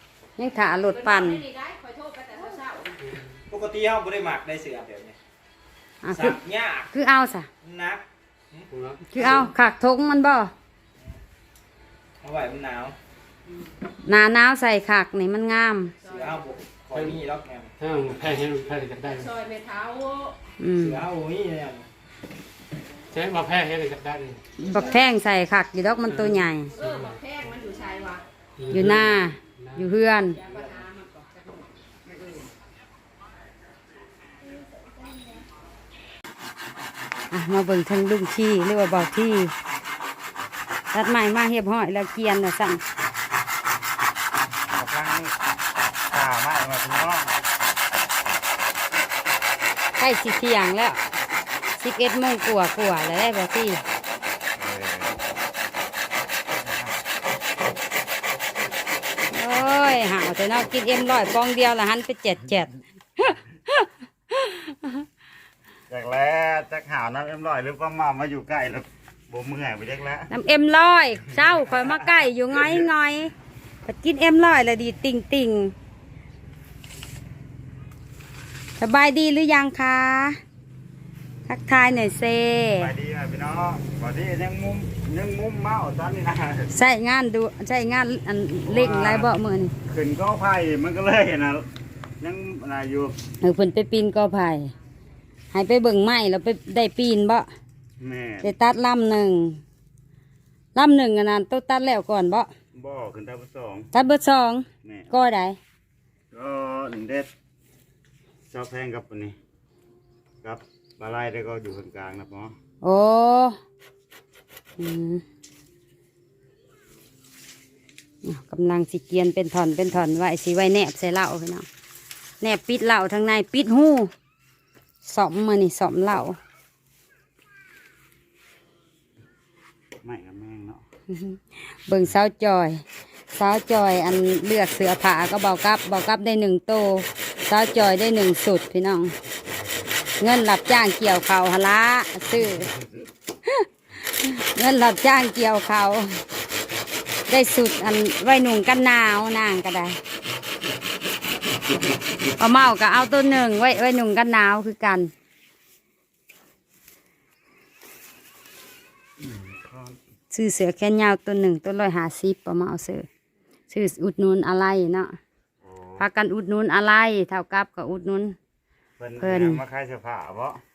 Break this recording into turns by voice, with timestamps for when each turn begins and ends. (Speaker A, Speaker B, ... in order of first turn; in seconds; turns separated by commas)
Speaker A: 0.4-1.4, Speaker B: 0.9-3.1, Speaker C: 3.0-3.3, Speaker D: 3.5-5.2, Speaker A: 6.0-6.4, Speaker D: 6.1-6.9, Speaker A: 6.9-7.5, Speaker D: 7.6-8.7, Speaker C: 8.7-9.5, Speaker A: 9.1-10.5, Speaker D: 12.2-13.0, Speaker A: 14.1-16.0, Speaker D: 16.0-17.7, Speaker B: 16.1-16.3, Speaker C: 16.9-17.2, Speaker C: 17.8-19.3, Speaker B: 19.1-20.4, Speaker A: 20.6-21.0, Speaker D: 20.8-21.9, Speaker C: 23.1-24.4, Speaker A: 24.6-26.8, Speaker C: 26.1-27.2, Speaker B: 26.8-28.2, Speaker C: 28.6-29.9, Speaker A: 28.7-30.4, Speaker B: 30.4-32.3, Speaker A: 37.3-39.5, Speaker A: 40.9-42.8, Speaker E: 44.7-45.3, Speaker E: 46.1-47.3, Speaker A: 50.0-51.0, Speaker A: 51.8-53.8, Speaker E: 54.6-55.2, Speaker E: 56.5-57.0, Speaker A: 59.3-65.0, Speaker E: 65.9-70.3, Speaker A: 70.3-73.3, Speaker E: 71.4-72.8, Speaker A: 73.9-75.7, Speaker A: 78.8-80.4, Speaker A: 81.5-82.9, Speaker E: 82.8-86.7, Speaker A: 86.7-89.7, Speaker E: 88.7-91.7, Speaker E: 92.2-93.2, Speaker A: 93.4-94.7, Speaker A: 95.5-97.5, Speaker E: 98.0-98.5, Speaker A: 98.4-99.6, Speaker A: 100.8-102.5, Speaker E: 102.8-103.9, Speaker A: 103.9-105.6, Speaker E: 104.8-105.1, Speaker E: 106.3-107.3, Speaker E: 108.5-109.4, Speaker E: 110.4-112.5, Speaker A: 112.8-113.6, Speaker A: 114.8-115.2, Speaker A: 118.2-121.7, Speaker A: 122.4-124.1, Speaker A: 125.0-126.4, Speaker E: 130.0-130.8, Speaker A: 131.1-132.8, Speaker A: 133.3-139.1, Speaker A: 140.2-142.7, Speaker A: 143.5-146.1, Speaker A: 147.3-150.0, Speaker A: 152.4-155.1, Speaker E: 159.2-160.0, Speaker A: 160.3-163.1, Speaker A: 163.7-165.1, Speaker E: 165.6-166.0, Speaker A: 166.0-168.4, Speaker E: 169.0-170.6, Speaker A: 169.2-169.6